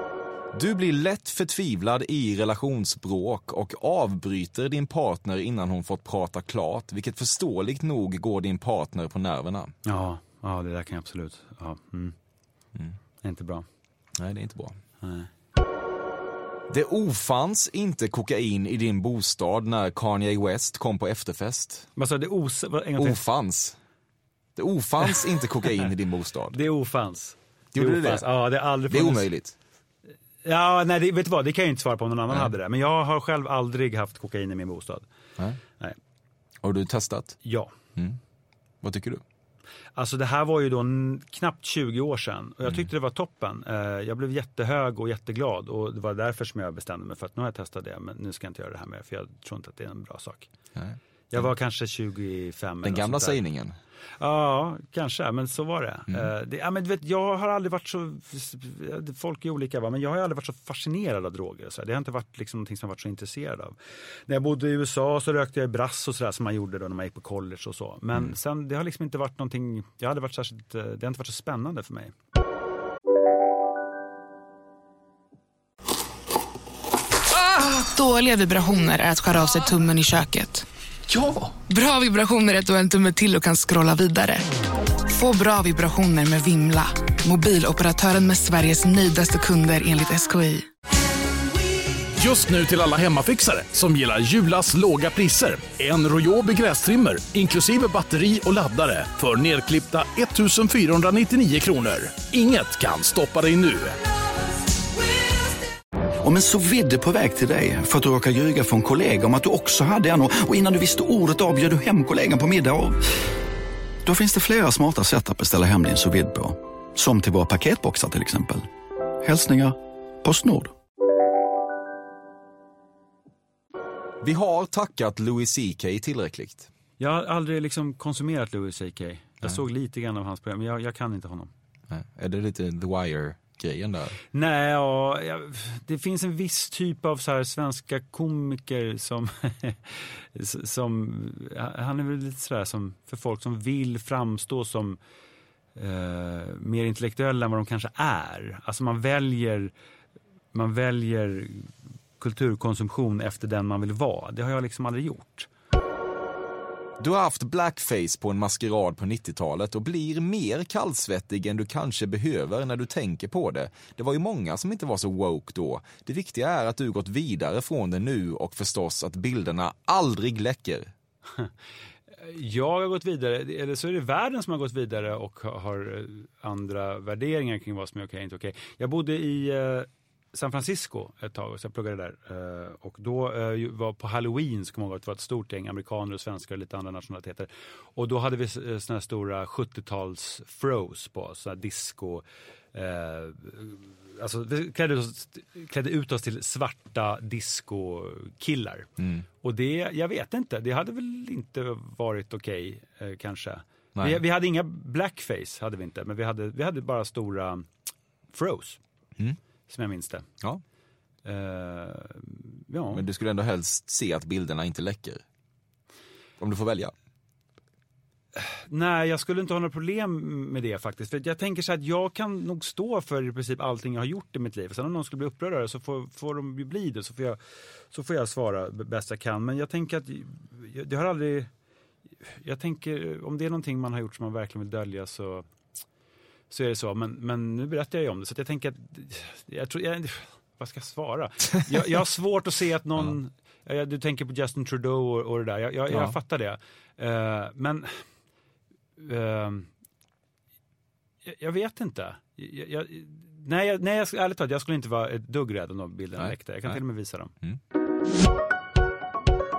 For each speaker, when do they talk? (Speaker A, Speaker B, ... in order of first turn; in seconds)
Speaker A: 0.5-9.7, 14.2-14.8, 16.7-21.9, 23.0-23.8, 24.6-26.6, 27.7-28.4, 28.9-29.6, 36.6-37.4, 38.8-39.2, 50.7-51.5, 52.8-53.7, 124.2-126.7, 131.9-134.2, 157.0-170.9, 199.0-199.2, 203.9-204.2, 212.9-215.2, 216.4-216.9, 245.9-246.2, 256.2-256.8
Speaker B: 9.8-12.1, 13.2-13.7, 15.0-15.3, 22.0-23.2, 26.5-29.2, 30.4-35.1, 37.4-37.7, 40.0-50.5, 51.3-53.4, 54.2-72.1, 127.0-131.5, 134.3-145.0, 145.8-149.7, 150.5-155.5, 172.1-198.9, 199.4-207.7, 208.3-208.8, 209.7-210.3, 211.2-213.0, 218.3-227.4, 227.9-231.5, 232.2-235.4, 236.5-248.0, 249.0-249.7, 251.2-257.3
Speaker C: 77.3-80.6, 81.5-84.5, 85.0-90.7
Speaker D: 92.1-104.0
Speaker E: 106.2-113.0, 114.0-118.7, 119.2-120.7